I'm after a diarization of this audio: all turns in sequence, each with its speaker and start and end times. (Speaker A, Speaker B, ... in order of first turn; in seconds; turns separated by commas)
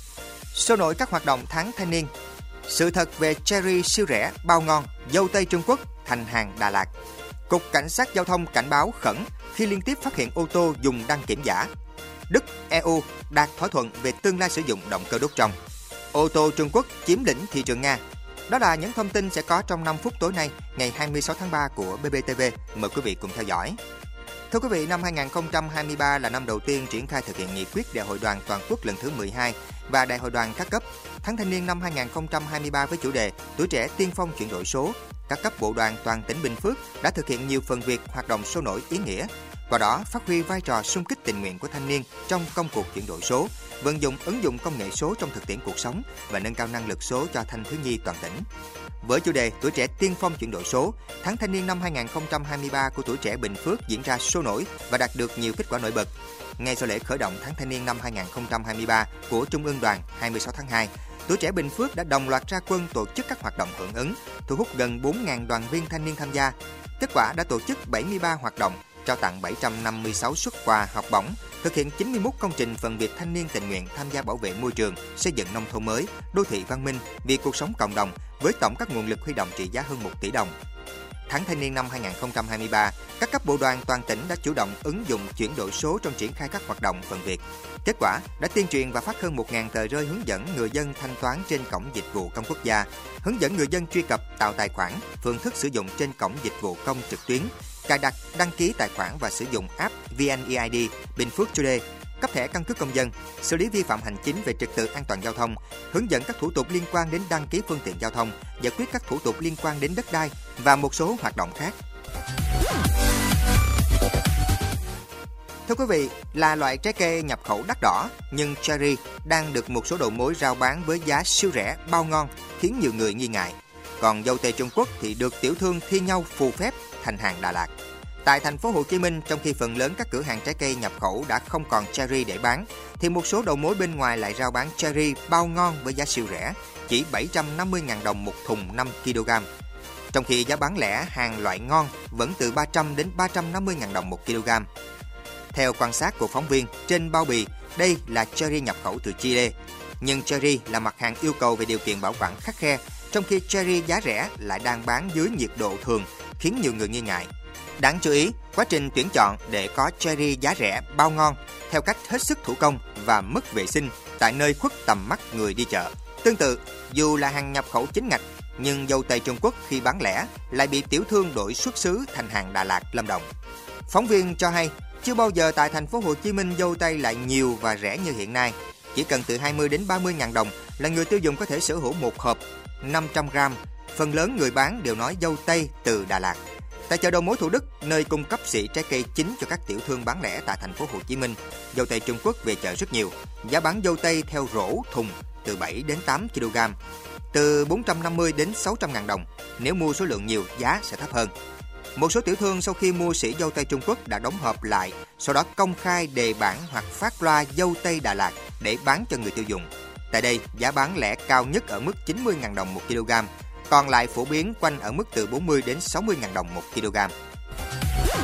Speaker A: 0.5-2.1, Speaker A: 2.7-6.9, Speaker A: 7.5-11.7, Speaker A: 12.3-15.5, Speaker A: 16.1-23.8, Speaker A: 24.5-48.5, Speaker A: 49.0-80.5, Speaker A: 81.3-111.8, Speaker A: 115.7-127.7, Speaker A: 128.2-139.5, Speaker A: 140.1-144.7, Speaker A: 145.5-173.3, Speaker A: 173.9-196.8, Speaker A: 197.3-201.3, Speaker A: 201.9-217.1